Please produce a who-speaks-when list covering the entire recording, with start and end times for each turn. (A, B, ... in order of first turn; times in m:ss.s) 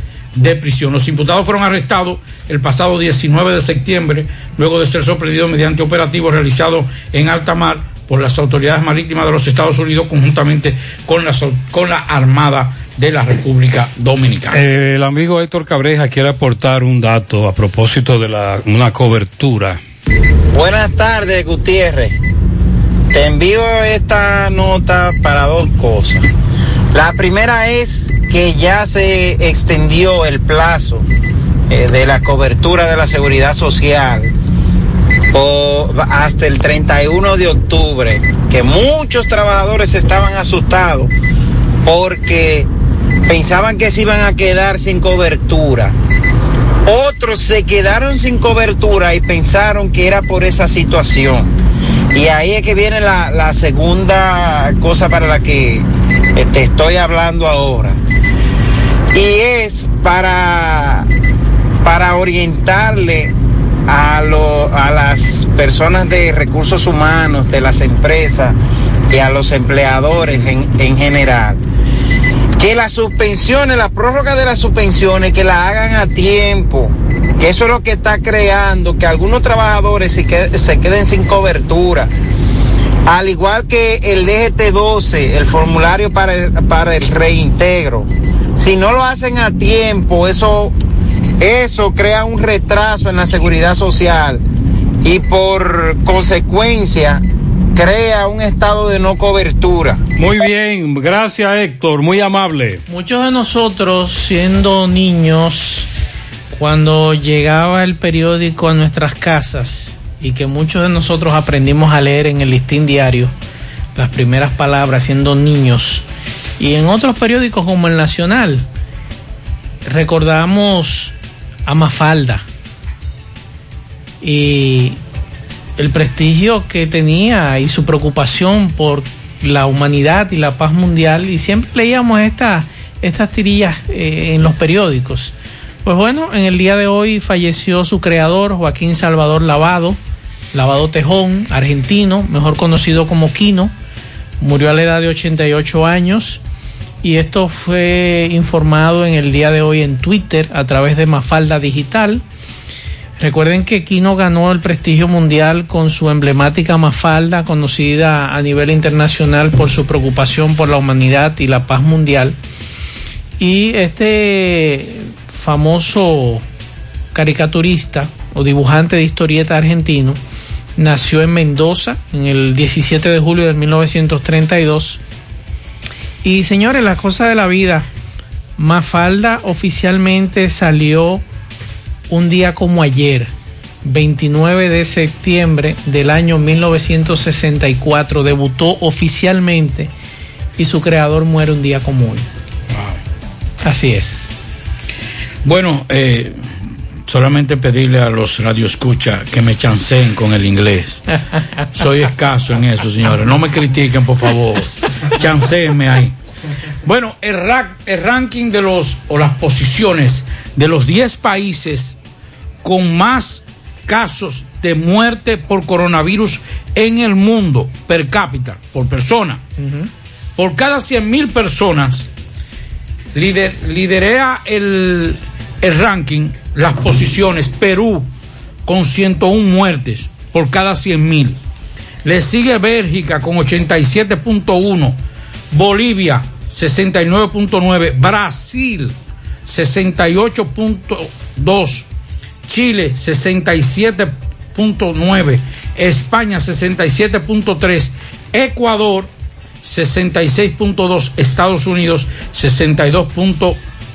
0:00.4-0:14.6 A
0:14.5-0:19.8 B
0:20.5-0:22.2 C
0:23.1-0:26.3 C
0:26.9-0:31.1 C
0:31.7-0:34.3 C
0:35.3-0:41.1 C
0:41.8-0:42.7 C
0:43.2-0:45.9 C
0:46.8-0:51.5 C
0:52.1-0:58.0 C
0:59.1-1:01.1 C
1:01.8-1:03.3 C
1:03.9-1:08.6 C
1:09.1-1:11.6 C
1:12.6-1:22.1 C
1:23.0-1:30.7 C
1:31.4-1:34.4 C
1:35.0-1:37.2 C
1:37.7-1:40.0 C
1:40.2-1:42.8 B
1:42.9-1:45.9 D
1:46.5-1:53.3 D
1:53.9-1:56.0 D
1:56.6-1:58.6 D
1:59.8-2:01.1 D
2:01.7-2:02.4 D
2:04.2-2:05.0 D
2:05.8-2:15.3 D
2:15.8-2:20.0 D
2:20.5-2:23.7 D
2:24.4-2:26.4 D
2:27.0-2:32.2 D
2:33.2-2:42.4 D
2:43.4-2:46.4 D
2:47.1-2:50.2 D
2:50.8-2:55.0 D
2:56.2-2:57.9 D
2:58.6-3:01.2 D
3:02.1-3:03.3 D
3:03.8-3:09.9 D
3:10.6-3:12.3 D
3:12.7-3:13.0 A
3:13.6-3:14.3 D
3:15.4-3:16.4 A
3:17.1-3:21.1 A
3:21.7-3:26.1 A
3:26.8-3:32.0 A
3:32.6-3:39.4 A
3:39.6-3:39.9 D
3:40.4-3:42.1 A
3:43.1-3:48.1 A
3:48.6-3:51.4 A
3:52.0-3:55.0 A
3:55.5-3:58.9 A
3:59.4-4:01.9 A
4:02.4-4:09.1 A
4:09.6-4:13.6 A